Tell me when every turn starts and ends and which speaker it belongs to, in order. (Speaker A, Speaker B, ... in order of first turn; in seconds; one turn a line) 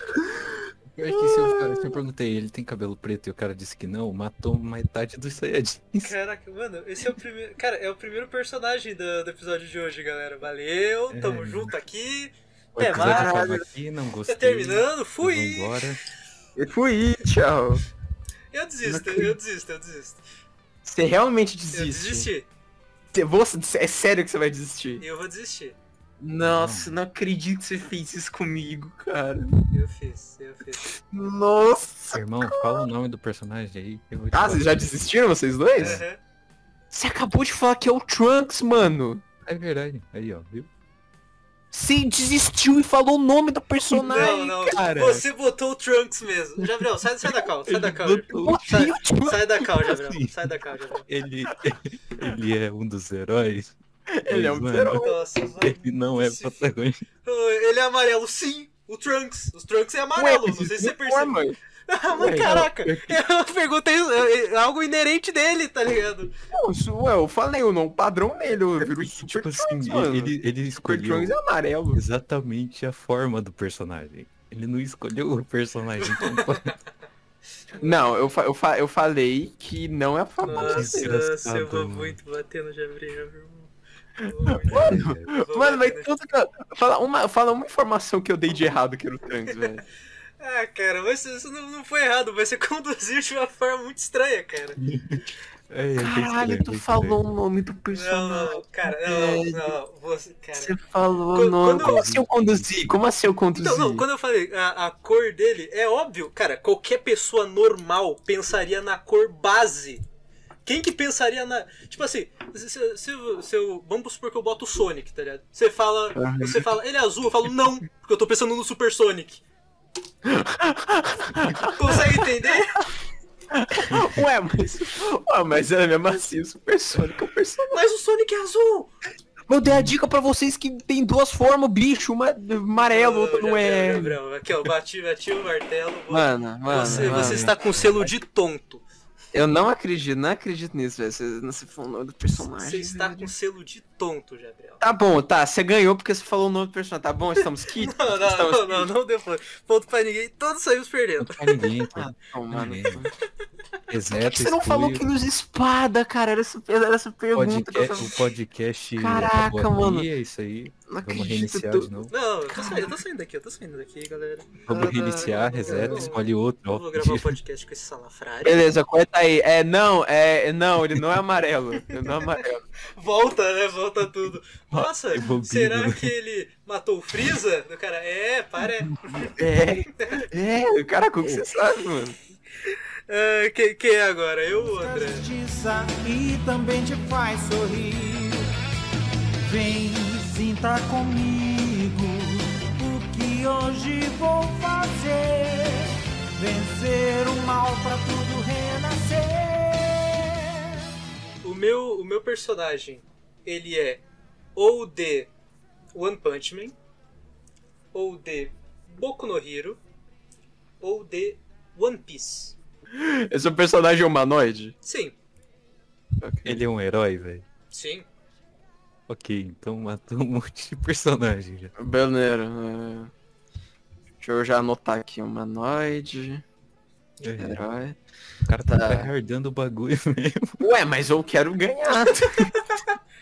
Speaker A: 0.9-6.1
Speaker B: 6.0-13.5
Speaker A: 11.1-11.8
Speaker A: 12.7-16.0
Speaker C: 12.9-13.6
Speaker B: 14.3-16.0
Speaker C: 16.6-17.8
Speaker B: 18.5-20.2
Speaker C: 18.8-19.4
Speaker C: 20.8-22.3
Speaker B: 21.7-22.5
Speaker C: 23.1-25.0
Speaker B: 25.0-25.8
Speaker C: 26.2-29.6
Speaker A: 26.4-26.9
Speaker B: 29.7-30.8
Speaker C: 30.9-32.8
Speaker A: 32.1-35.1
Speaker C: 34.3-36.0
Speaker A: 35.8-36.0
Speaker B: 35.8-36.2
Speaker C: 36.9-39.2
Speaker A: 39.5-40.7
Speaker C: 41.7-45.2
Speaker B: 44.0-51.1
Speaker A: 47.6-48.8
Speaker C: 48.3-49.7
Speaker A: 50.0-50.6
Speaker A: 51.1-53.7
Speaker C: 54.1-55.1
Speaker A: 54.3-55.0
Speaker B: 54.9-56.7
Speaker A: 55.6-57.0
Speaker B: 57.2-61.4
Speaker C: 60.1-61.6
Speaker B: 61.9-66.3
Speaker C: 62.1-63.2
Speaker C: 66.5-72.0
Speaker A: 68.8-71.4
Speaker A: 71.9-76.7
Speaker B: 76.0-76.8
Speaker C: 77.8-81.2
Speaker B: 80.4-83.7
Speaker A: 80.5-82.2
Speaker B: 84.2-86.1
Speaker C: 84.2-89.8
Speaker A: 84.7-85.3
Speaker B: 90.4-94.8
Speaker A: 94.8-97.2
Speaker C: 96.0-99.8
Speaker B: 97.9-100.7
Speaker C: 100.5-104.0
Speaker B: 101.3-102.1
Speaker A: 101.8-103.0
Speaker B: 103.5-110.0
Speaker B: 110.6-119.4
Speaker C: 116.1-116.7
Speaker C: 120.2-122.2
Speaker B: 121.7-122.8
Speaker C: 123.5-127.9
Speaker B: 127.7-128.9
Speaker C: 129.5-134.2
Speaker B: 132.8-138.8
Speaker C: 136.1-138.1
Speaker A: 136.7-138.0
Speaker C: 139.3-143.3
Speaker B: 142.6-144.8
Speaker C: 144.8-148.9
Speaker B: 147.8-151.6
Speaker A: 151.2-153.0
Speaker C: 151.9-153.1
Speaker A: 153.9-155.0
Speaker C: 154.2-158.2
Speaker A: 157.3-162.1
Speaker C: 159.0-160.1
Speaker C: 160.8-161.9
Speaker B: 162.1-168.7
Speaker C: 162.5-163.0
Speaker A: 164.7-167.4
Speaker C: 165.7-166.0
Speaker C: 168.4-172.6
Speaker B: 173.0-178.9
Speaker A: 175.1-176.1
Speaker C: 178.6-182.2
Speaker B: 183.1-185.3
Speaker D: 184.5-188.5
Speaker D: 189.4-200.3
Speaker B: 201.4-204.0
Speaker B: 204.6-205.3
Speaker B: 205.9-206.7
Speaker B: 207.9-209.8
Speaker B: 210.8-212.6
Speaker C: 212.9-214.8
Speaker B: 214.8-215.2
Speaker C: 216.2-216.6
Speaker A: 216.4-217.4
Speaker B: 217.7-218.1
Speaker A: 219.1-221.7
Speaker C: 221.8-223.1
Speaker C: 224.2-226.4
Speaker A: 227.2-227.7
Speaker C: 227.4-228.0
Speaker A: 228.5-230.6
Speaker C: 228.7-229.1
Speaker C: 230.6-232.5
Speaker B: 232.1-232.9